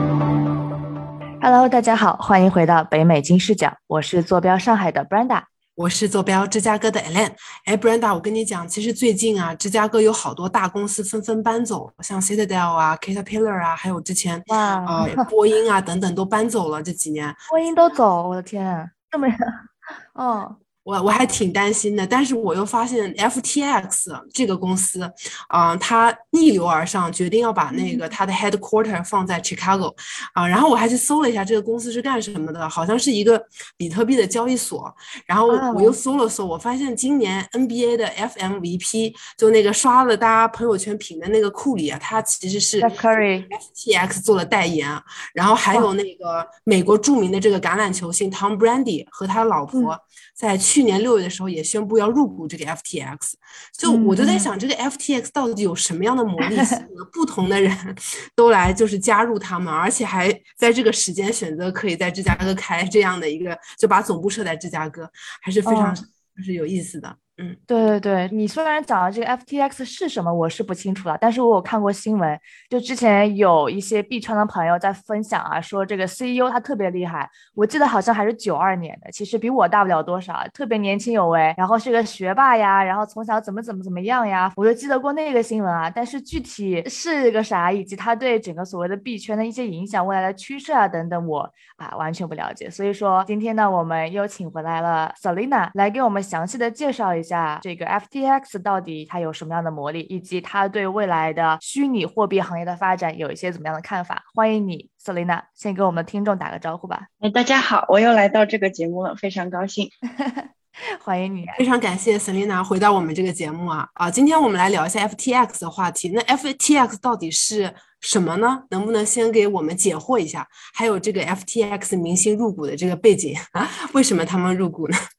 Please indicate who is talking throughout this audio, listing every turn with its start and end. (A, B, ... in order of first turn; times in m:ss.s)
0:01.4-0:05.5 A
0:05.8-0:17.9 B
0:14.5-0:15.3 A
0:17.5-0:20.6 A
0:20.8-1:07.6 B
0:27.7-0:28.1 A
0:35.5-0:36.0 A
0:42.8-0:43.5 A
0:53.9-0:54.5 A
0:56.5-0:56.8 A
1:05.7-1:06.0 A
1:07.7-1:47.1 A
1:47.2-1:49.9 C
1:50.1-1:51.6 A
1:51.6-2:05.0 B